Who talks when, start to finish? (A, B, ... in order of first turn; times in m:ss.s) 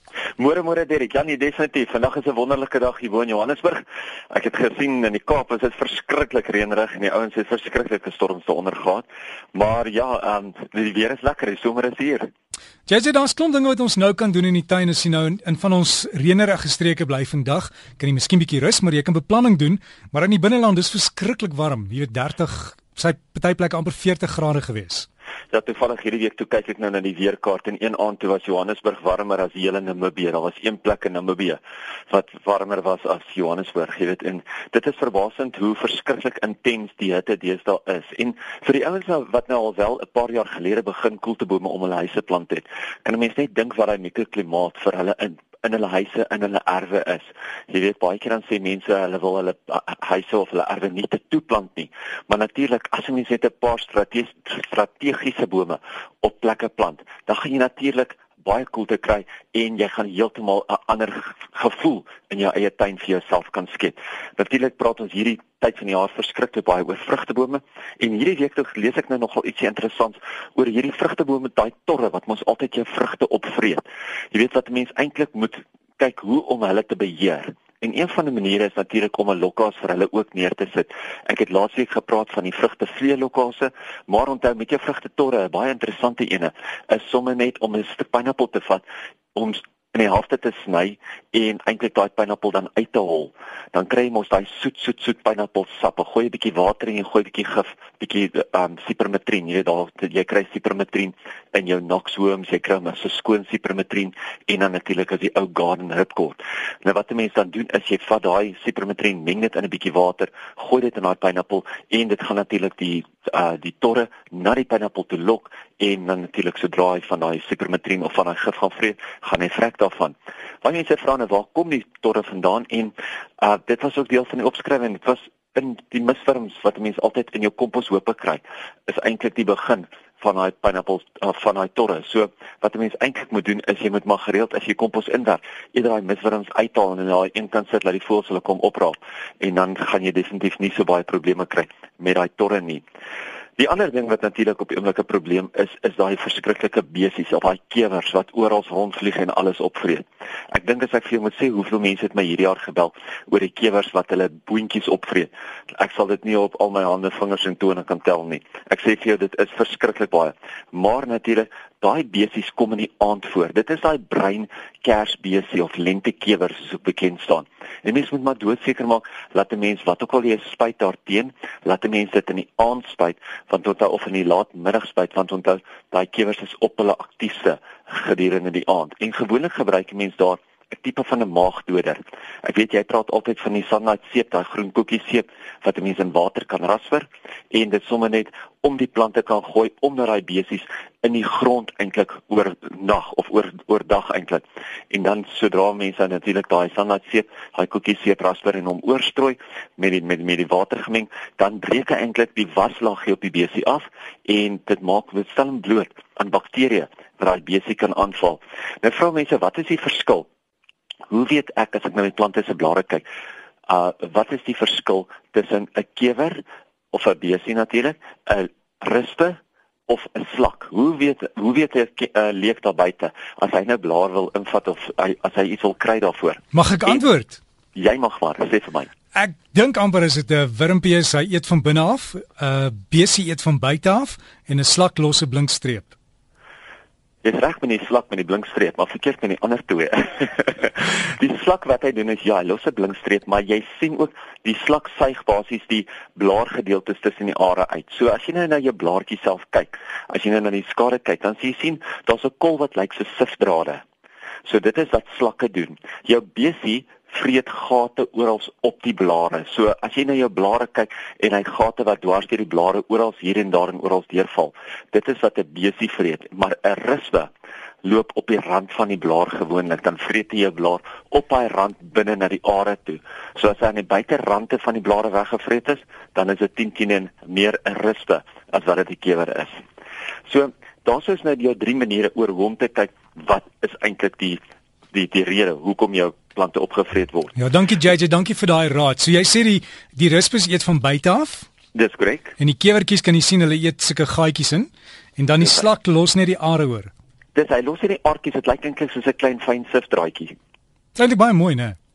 0:00.4-0:12.3 A
0:12.9-0:25.1 B
0:25.5-2:22.8 A
2:23.6-3:30.2 A
3:31.1-3:33.0 A
3:33.7-3:36.4 A
3:36.9-3:47.0 A
3:46.5-3:47.4 B
3:47.8-3:48.9 A
3:49.1-3:55.9 B
3:57.2-4:13.8 A
4:14.4-4:27.3 A
4:27.8-4:39.6 A
4:40.3-4:44.4 A
4:44.9-4:47.4 A
4:47.4-4:51.5 B
4:51.7-4:52.4 A
4:52.4-4:56.9 B
4:57.4-5:00.4 A
5:00.9-5:01.8 B